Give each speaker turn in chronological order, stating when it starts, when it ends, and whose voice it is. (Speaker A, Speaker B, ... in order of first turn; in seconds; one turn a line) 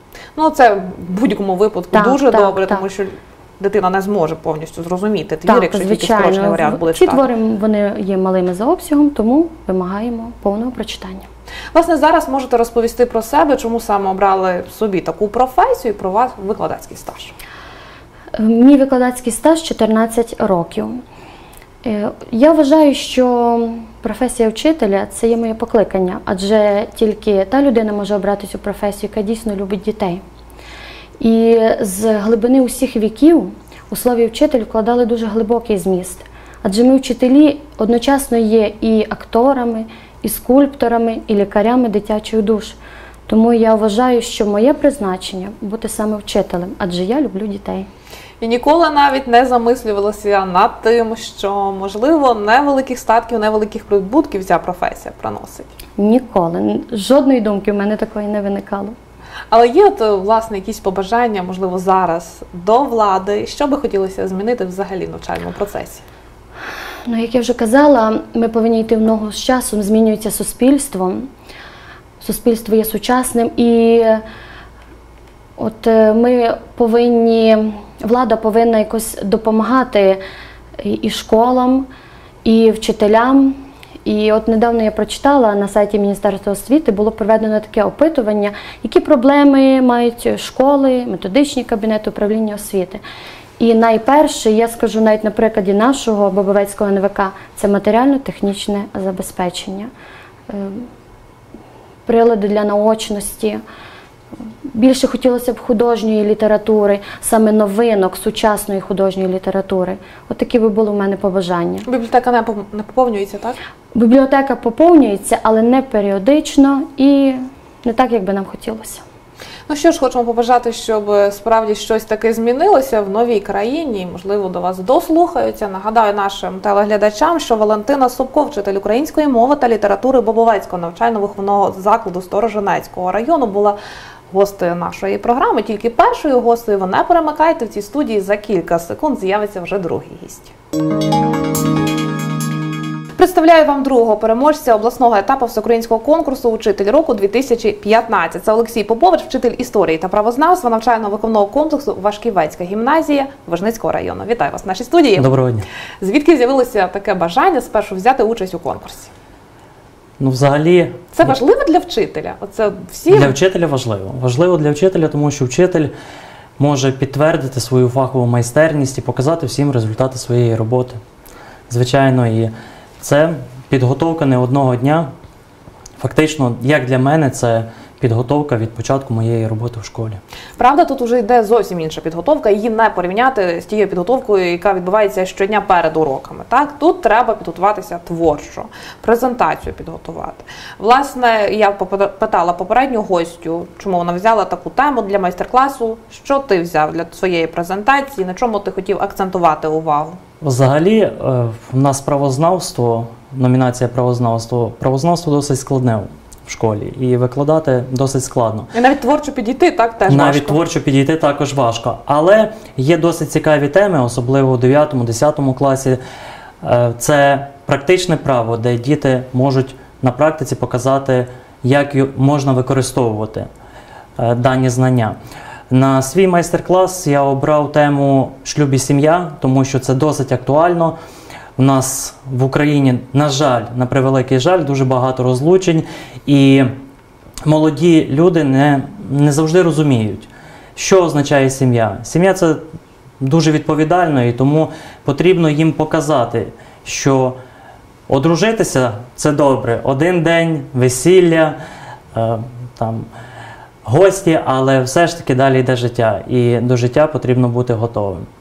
Speaker A: 0.4-7.3
Speaker B: 1.9-2.8
Speaker B: 5.5-11.3
Speaker A: 11.7-17.3
Speaker B: 18.4-21.0
Speaker B: 21.8-30.2
Speaker B: 31.2-47.9
Speaker A: 48.4-55.7
Speaker B: 56.0-59.0
Speaker A: 59.5-66.0
Speaker B: 67.1-71.3
Speaker B: 72.2-74.2
Speaker B: 75.6-80.2
Speaker B: 80.8-81.9
Speaker B: 82.4-93.0
Speaker B: 93.6-99.9
Speaker B: 100.5-100.9
Speaker B: 102.1-103.6
Speaker B: 104.7-111.9
Speaker A: 111.9-113.6
Speaker B: 113.9-119.0
Speaker A: 119.7-133.8
Speaker A: 134.3-140.5
Speaker A: 143.2-155.3
Speaker C: 155.2-155.7
Speaker A: 156.0-159.1
Speaker C: 160.2-161.4
Speaker A: 161.1-163.4
Speaker C: 163.1-165.9
Speaker C: 166.6-171.0
Speaker C: 171.7-175.1
Speaker C: 176.0-180.2
Speaker A: 180.6-200.2
Speaker C: 200.4-208.7
Speaker A: 208.7-210.6
Speaker C: 210.1-216.0
Speaker C: 216.6-223.5
Speaker C: 224.2-225.2
Speaker C: 225.7-231.0
Speaker C: 231.6-236.8
Speaker C: 237.4-242.7
Speaker C: 243.2-247.4
Speaker C: 248.1-251.6
Speaker C: 252.1-253.1
Speaker C: 253.8-258.3